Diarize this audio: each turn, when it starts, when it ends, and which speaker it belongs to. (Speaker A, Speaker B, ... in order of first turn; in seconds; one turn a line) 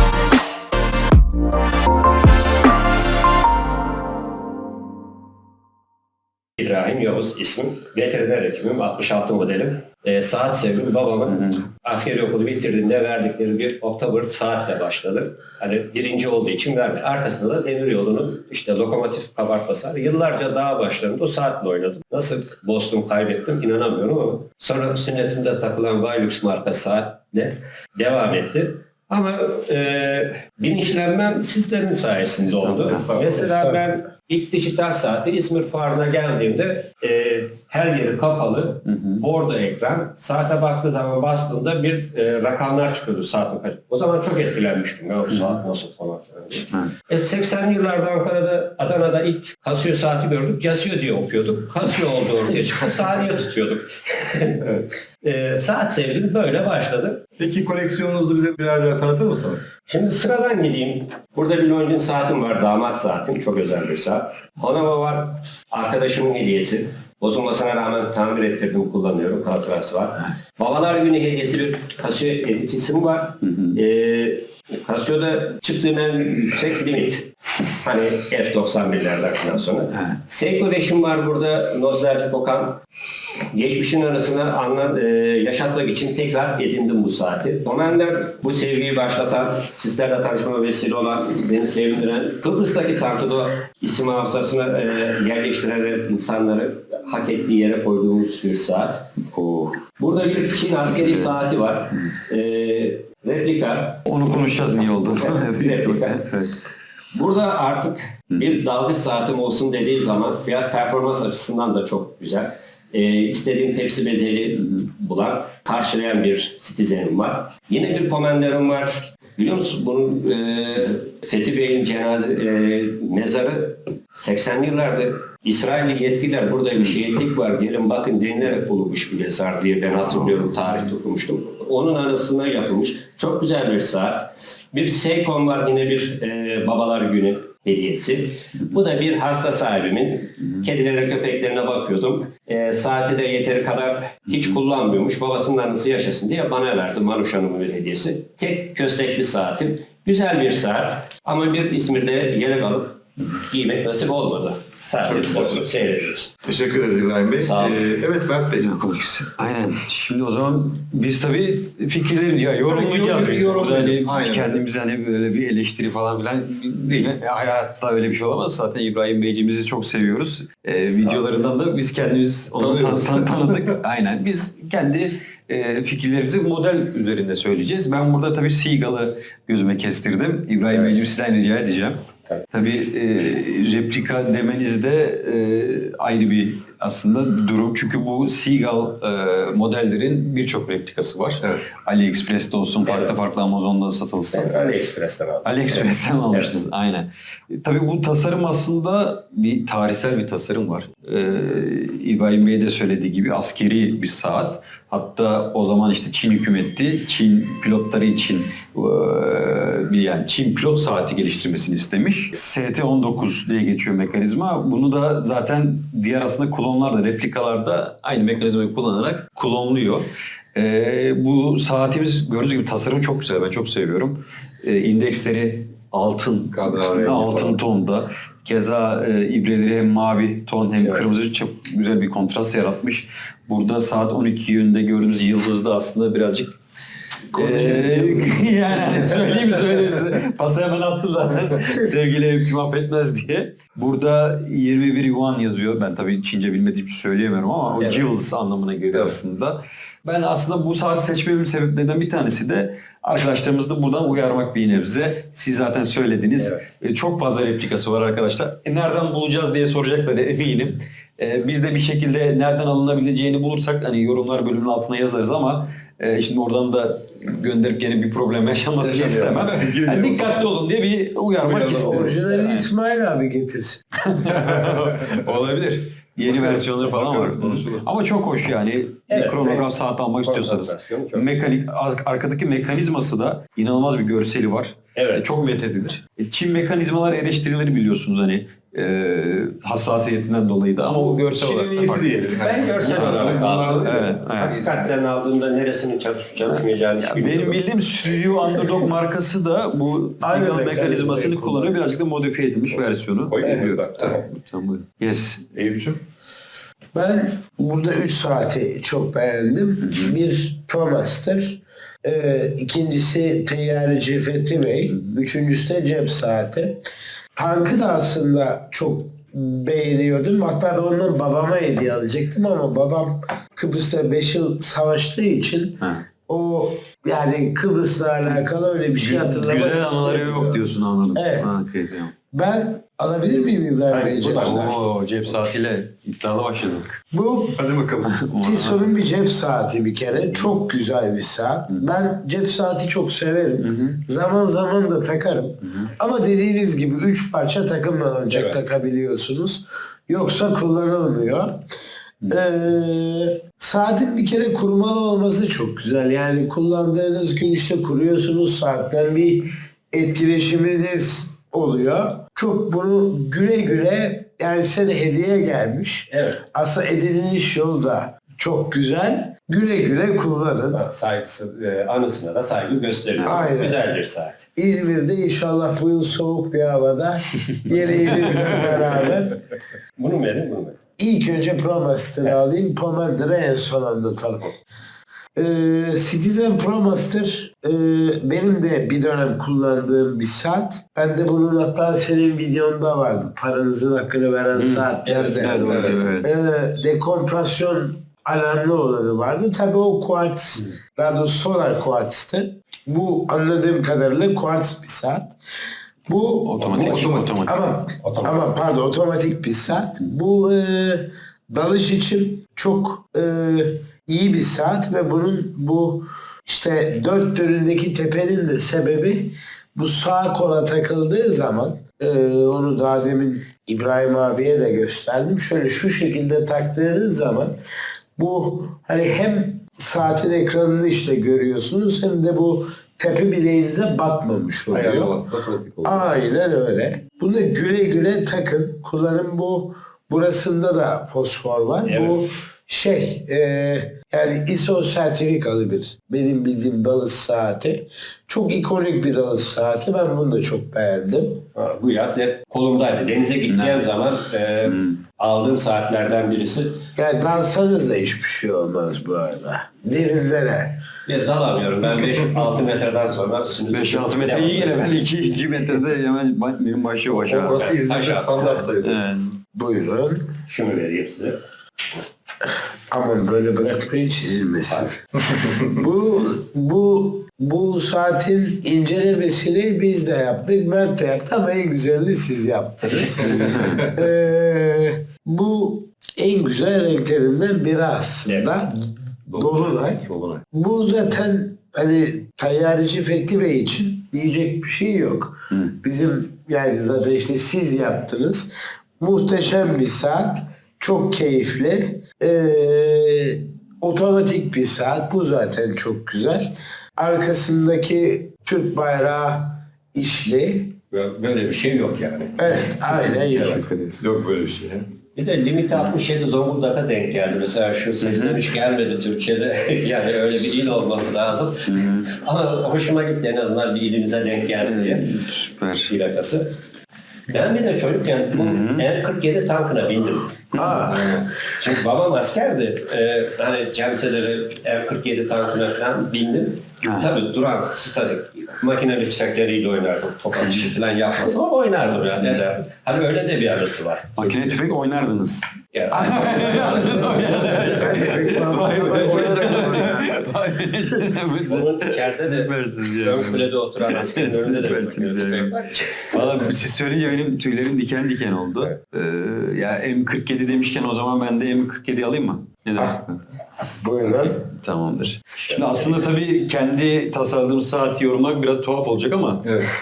Speaker A: 6.6-57.2
Speaker B: 11.3-11.6
Speaker B: 32.4-33.1
Speaker C: 32.8-33.4
Speaker D: 33.2-33.8
Speaker B: 38.8-39.2
Speaker B: 45.3-45.5
Speaker C: 57.4-59.7
Speaker A: 59.9-77.3
Speaker B: 73.4-73.8
Speaker A: 77.8-82.8
Speaker B: 79.9-80.2
Speaker A: 83.5-99.0
Speaker B: 99.3-99.8
Speaker A: 100.0-106.2
Speaker B: 100.8-101.9
Speaker B: 104.0-106.6
Speaker A: 107.1-156.3
Speaker C: 155.0-155.8
Speaker C: 156.4-158.8
Speaker A: 157.4-157.8
Speaker B: 158.6-194.8
Speaker C: 162.7-164.6
Speaker A: 171.0-171.3
Speaker C: 172.6-173.6
Speaker A: 180.7-181.0
Speaker A: 192.8-193.2
Speaker A: 194.3-196.5
Speaker B: 195.4-236.6
Speaker C: 226.5-227.6
Speaker B: 237.3-272.7
Speaker D: 237.3-238.3
Speaker A: 247.8-248.1
Speaker A: 256.4-256.6
Speaker C: 268.8-270.4
Speaker C: 271.4-271.9
Speaker D: 271.5-273.8
Speaker B: 274.1-292.1
Speaker C: 274.6-275.1
Speaker C: 276.2-277.9
Speaker A: 279.1-279.7
Speaker A: 280.2-281.3
Speaker A: 284.9-285.2
Speaker C: 290.9-294.0
Speaker A: 292.3-297.6
Speaker B: 292.8-294.8
Speaker B: 296.4-305.5
Speaker A: 300.2-301.8
Speaker A: 302.7-304.2
Speaker D: 303.4-303.7
Speaker C: 305.6-306.0
Speaker D: 306.9-316.8
Speaker B: 309.8-310.2
Speaker B: 314.9-315.2
Speaker D: 317.4-330.6
Speaker B: 328.9-332.1
Speaker D: 331.1-331.5
Speaker D: 332.3-334.8
Speaker A: 333.9-334.8
Speaker B: 334.4-336.9
Speaker D: 337.1-337.6
Speaker C: 337.6-338.2
Speaker B: 338.0-338.9
Speaker D: 338.3-351.6
Speaker B: 340.1-340.5
Speaker B: 343.6-344.0
Speaker B: 345.6-345.9
Speaker A: 348.3-348.6
Speaker D: 352.3-370.8
Speaker A: 366.1-366.4
Speaker A: 370.7-374.4
Speaker B: 373.2-373.4
Speaker D: 373.2-373.8
Speaker D: 374.6-379.4
Speaker B: 377.9-378.7
Speaker A: 378.1-379.2
Speaker A: 380.0-380.8
Speaker D: 381.0-384.6
Speaker D: 385.4-405.3
Speaker B: 394.5-396.3
Speaker A: 395.0-396.0
Speaker D: 406.1-406.8
Speaker B: 406.4-407.6
Speaker A: 406.6-407.2
Speaker C: 406.8-407.4
Speaker D: 407.4-427.6
Speaker A: 408.0-408.4
Speaker D: 428.2-435.2
Speaker C: 434.7-436.1
Speaker D: 435.8-451.4
Speaker A: 441.8-442.2
Speaker A: 451.5-456.9
Speaker B: 453.5-453.9
Speaker B: 454.6-455.0
Speaker D: 456.9-460.8
Speaker A: 461.1-465.0
Speaker B: 463.7-467.7
Speaker C: 467.1-469.0
Speaker A: 467.4-468.6
Speaker B: 468.4-469.3
Speaker D: 469.5-470.3
Speaker A: 470.5-471.4
Speaker D: 472.9-475.0
Speaker C: 475.2-475.8
Speaker D: 475.7-510.8
Speaker A: 482.8-483.5
Speaker B: 483.3-483.8
Speaker C: 483.5-484.0
Speaker A: 488.2-488.5
Speaker C: 489.3-490.4
Speaker A: 510.9-512.4
Speaker D: 512.4-513.6
Speaker B: 512.9-513.6
Speaker C: 513.2-514.9
Speaker A: 515.1-525.1
Speaker B: 518.0-518.4
Speaker B: 521.6-522.1
Speaker B: 524.6-525.9
Speaker A: 525.8-526.5
Speaker A: 527.3-530.4
Speaker B: 528.3-528.8
Speaker B: 530.5-530.9
Speaker D: 530.6-531.0
Speaker C: 530.7-531.3
Speaker A: 531.5-544.4
Speaker B: 536.8-537.1
Speaker B: 540.4-540.7
Speaker B: 544.1-563.2
Speaker A: 545.7-547.8
Speaker D: 546.3-550.1
Speaker C: 548.5-550.1
Speaker A: 551.5-556.2
Speaker D: 563.8-564.5
Speaker B: 564.5-569.5
Speaker A: 565.5-566.1
Speaker C: 569.4-569.7